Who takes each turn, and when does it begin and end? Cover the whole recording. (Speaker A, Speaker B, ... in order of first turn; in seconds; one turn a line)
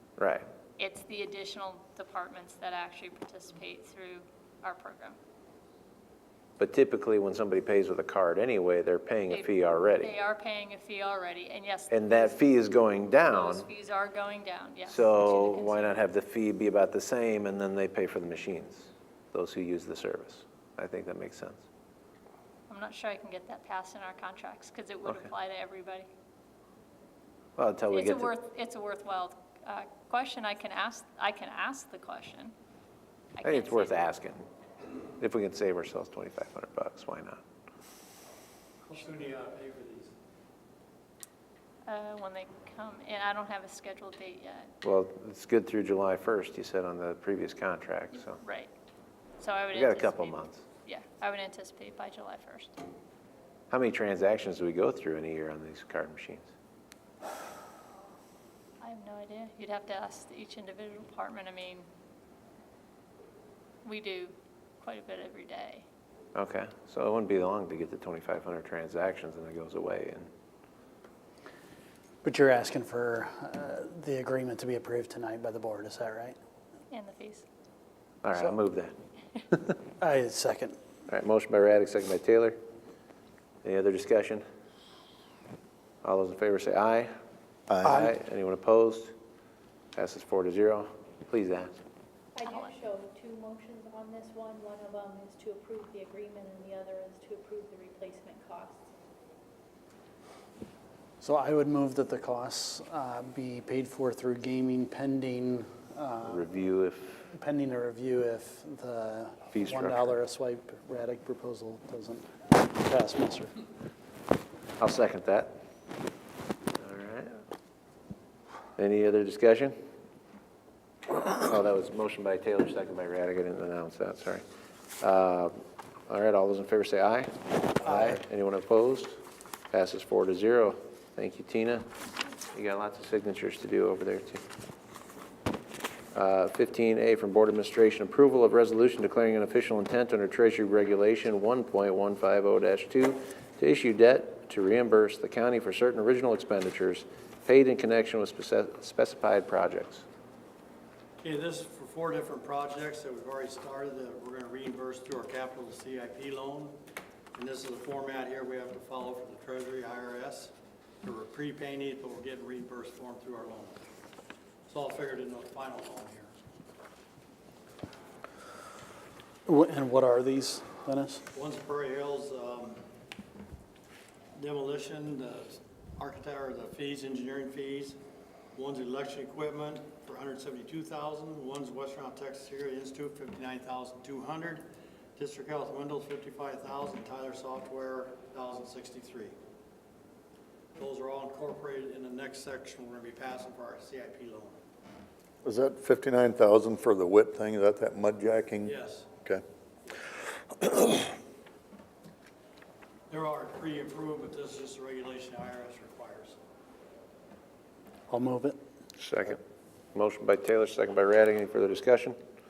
Speaker A: 0.2-0.5
Speaker B: 0.8-5.2
Speaker A: 6.6-10.1
Speaker B: 9.3-12.4
Speaker A: 11.9-13.7
Speaker B: 13.3-16.1
Speaker A: 14.9-21.6
Speaker B: 22.7-26.1
Speaker A: 27.6-28.3
Speaker B: 27.9-32.5
Speaker B: 33.4-34.1
Speaker A: 33.4-34.5
Speaker A: 35.2-37.4
Speaker C: 38.8-40.1
Speaker B: 41.9-44.7
Speaker A: 44.8-48.4
Speaker B: 48.1-48.7
Speaker B: 49.4-52.8
Speaker A: 49.7-50.6
Speaker A: 53.7-56.5
Speaker B: 58.8-61.9
Speaker B: 63.8-65.9
Speaker A: 66.3-70.3
Speaker D: 72.2-76.4
Speaker B: 76.9-77.5
Speaker A: 78.2-78.9
Speaker D: 80.0-80.8
Speaker A: 81.1-82.6
Speaker A: 83.6-84.4
Speaker A: 86.0-87.1
Speaker E: 87.7-88.0
Speaker A: 87.8-89.1
Speaker D: 87.8-88.1
Speaker A: 90.0-91.7
Speaker F: 92.3-98.8
Speaker B: 92.5-92.7
Speaker D: 101.2-106.5
Speaker A: 106.3-107.2
Speaker D: 107.3-113.5
Speaker A: 109.5-110.2
Speaker A: 114.8-115.5
Speaker A: 116.8-117.4
Speaker A: 118.8-119.8
Speaker A: 121.2-124.4
Speaker A: 125.0-125.6
Speaker A: 126.1-129.2
Speaker A: 129.7-131.9
Speaker A: 132.5-134.4
Speaker A: 136.1-150.1
Speaker C: 151.2-156.8
Speaker C: 157.3-163.8
Speaker C: 164.7-166.3
Speaker D: 169.5-171.2
Speaker C: 171.3-172.8
Speaker C: 174.3-178.0
Speaker C: 178.6-189.3
Speaker C: 190.8-194.6
Speaker E: 195.4-199.4
Speaker C: 198.6-199.1
Speaker E: 200.6-201.1
Speaker C: 203.1-206.4
Speaker D: 208.1-208.6
Speaker A: 209.0-209.4
Speaker A: 209.9-212.2